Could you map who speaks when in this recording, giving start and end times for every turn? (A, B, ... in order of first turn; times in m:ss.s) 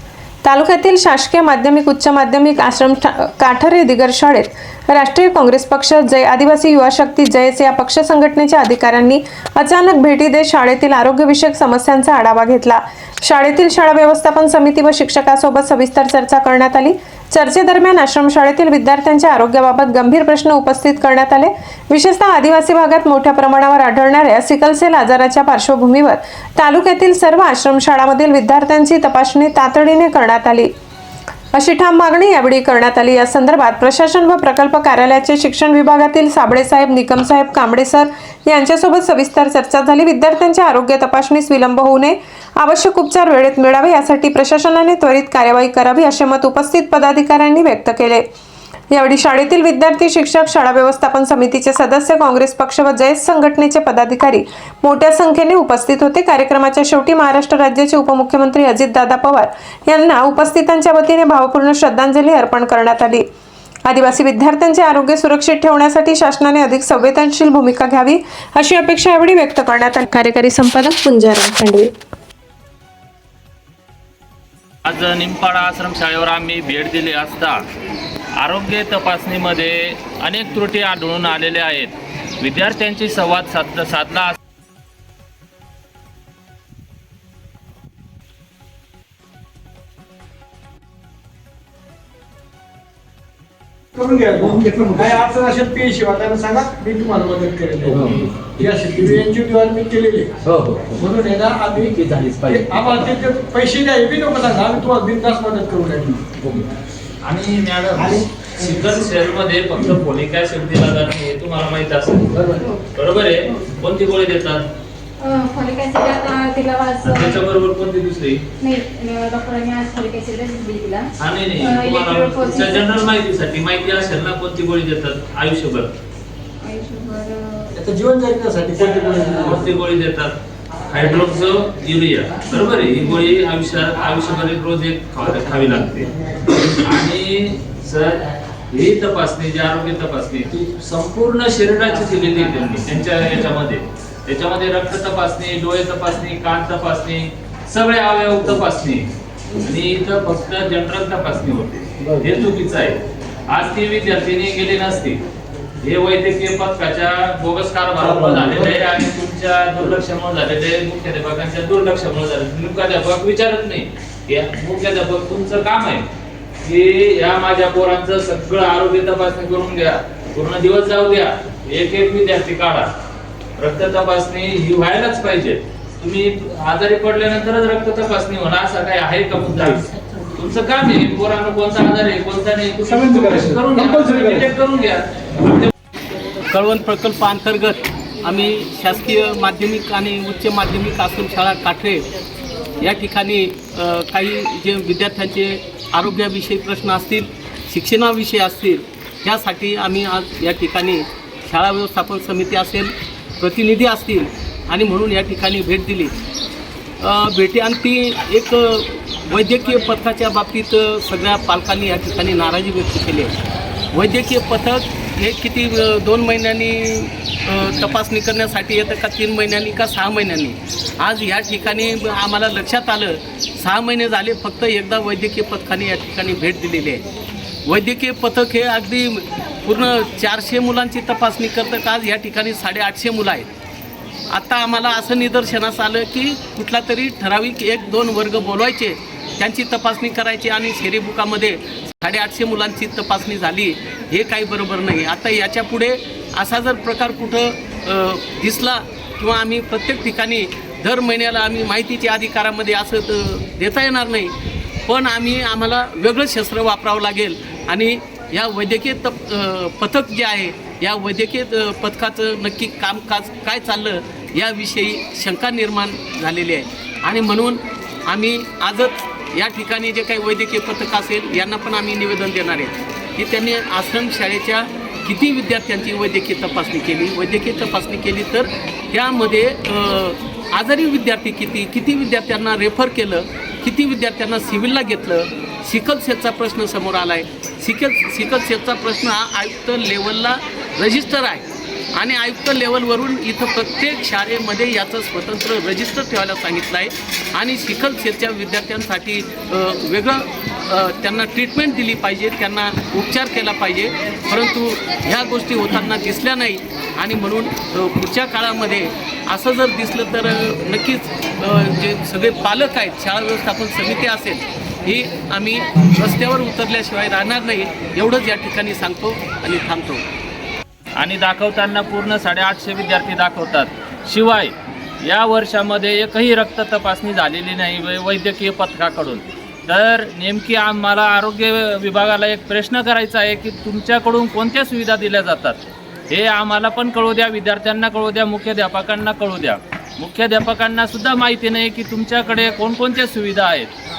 0:00.4-0:30.7 A
0:31.5-0:48.2 A
0:48.9-1:03.2 A
1:03.9-1:11.9 A
1:14.8-1:17.6 B
1:18.4-1:24.4 B
1:33.9-1:40.4 C
1:37.9-1:38.2 B
1:40.4-1:41.0 B
1:41.0-1:46.3 C
1:41.9-1:43.0 B
1:47.2-1:54.6 B
1:55.2-1:57.4 D
1:57.0-1:58.4 B
1:58.6-2:02.9 D
2:01.2-2:05.9 B
2:06.6-2:07.7 D
2:07.8-2:09.6 C
2:09.1-2:16.1 B
2:16.7-2:29.1 B
2:29.6-2:33.0 B
2:33.5-2:35.2 B
2:35.8-2:46.0 B
2:46.6-2:52.9 B
2:53.6-3:05.7 B
3:06.5-3:12.0 E
3:12.8-3:26.1 E
3:27.0-3:33.4 E
3:33.9-3:47.0 E
3:47.6-3:53.5 E
3:54.3-5:20.0 E
5:21.0-5:43.7 B